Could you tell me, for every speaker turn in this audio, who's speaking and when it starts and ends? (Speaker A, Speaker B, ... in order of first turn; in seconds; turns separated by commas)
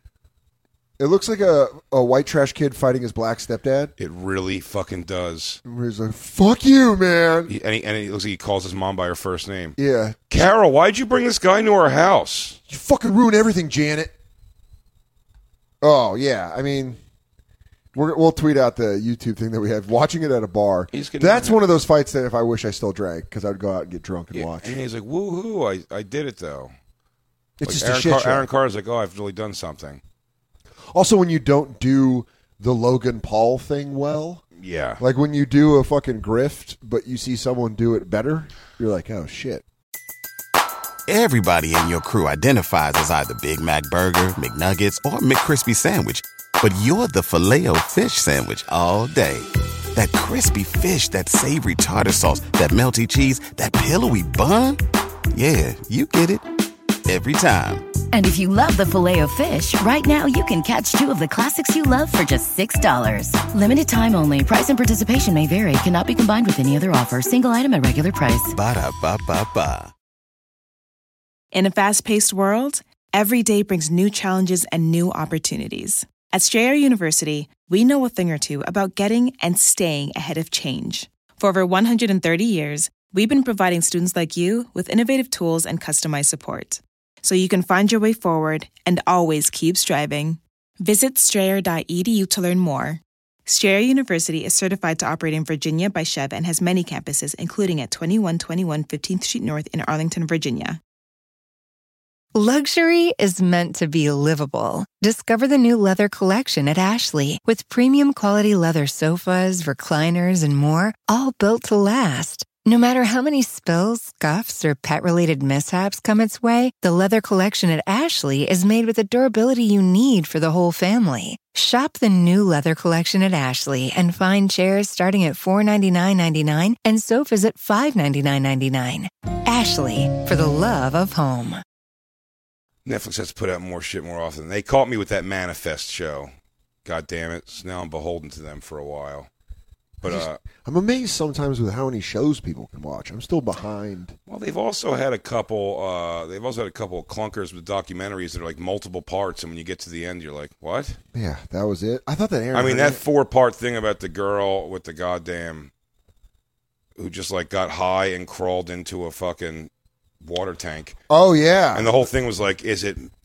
Speaker A: 1.0-3.9, Speaker B: 4.0-5.6, Speaker A: 5.7-7.5, Speaker B: 7.5-9.8, Speaker A: 9.8-10.2, Speaker B: 10.3-12.6, Speaker A: 12.7-14.1, Speaker A: 15.8-17.0, Speaker A: 17.9-24.8, Speaker B: 20.9-21.6, Speaker B: 24.3-26.7, Speaker A: 27.6-28.5, Speaker B: 27.6-30.0, Speaker A: 30.9-34.4, Speaker B: 34.6-35.0, Speaker A: 35.0-39.6, Speaker C: 41.1-54.8, Speaker C: 55.3-56.5, Speaker C: 57.1-57.9, Speaker D: 58.1-68.5, Speaker C: 68.5-69.9, Speaker E: 71.5-100.8, Speaker F: 102.3-131.6, Speaker B: 132.8-136.3, Speaker B: 136.8-139.3, Speaker B: 140.0-140.4, Speaker A: 140.0-144.2, Speaker B: 144.3-151.0, Speaker A: 151.1-153.0, Speaker B: 152.5-155.7, Speaker B: 157.0-159.7, Speaker B: 160.2-161.0, Speaker A: 161.1-162.0, Speaker B: 161.7-163.1